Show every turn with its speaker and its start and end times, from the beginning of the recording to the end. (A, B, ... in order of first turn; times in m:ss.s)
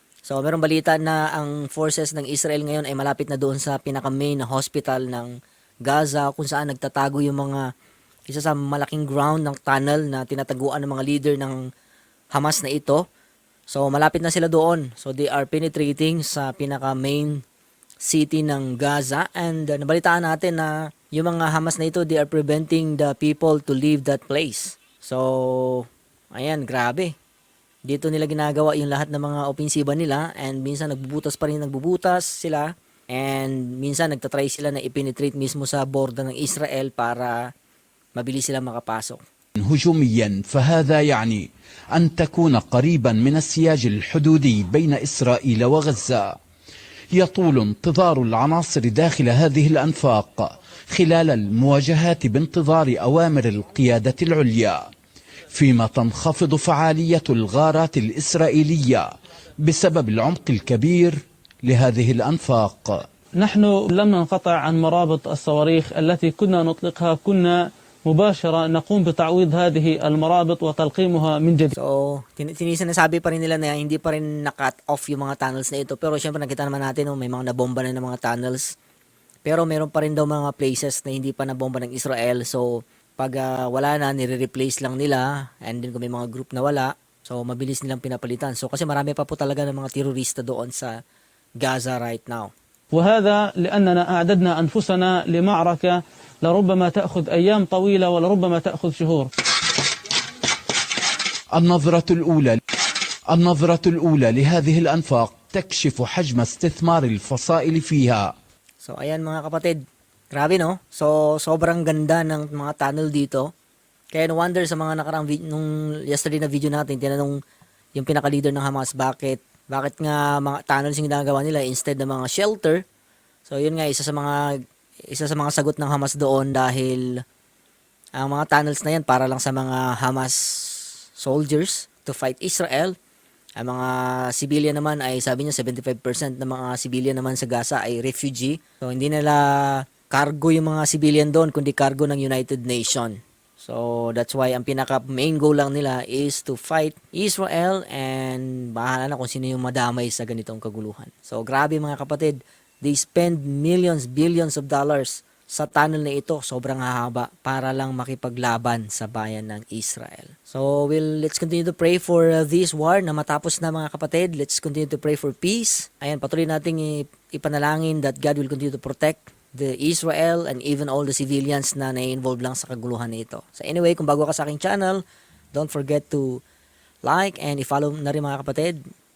0:00.3-0:07.6 A
0:08.3-0:11.6 A
0:12.3-0:13.0 A
0:13.7-0:17.4 A
0:18.0-0:27.1 A
0:27.9-0:37.4 A
0:38.2-0:39.2 A
0:39.6-0:46.3 B
0:47.2-0:54.8 B
0:55.5-0:59.1 B
0:59.6-1:03.0 B
1:03.4-1:11.8 C
1:11.8-1:18.7 A
1:19.4-1:31.0 A
1:31.6-1:32.5 A
1:32.9-1:39.3 C
1:41.6-1:42.6 B
1:43.3-1:48.3 B
1:48.8-1:49.8 A
1:50.3-1:53.5 A
1:54.1-1:57.4 A
1:57.9-2:02.8 A
2:03.5-2:04.5 A
2:05.1-2:07.1 A
2:08.2-2:12.9 A
2:13.6-2:55.0 A
2:55.5-2:56.4 A
2:57.0-2:58.8 A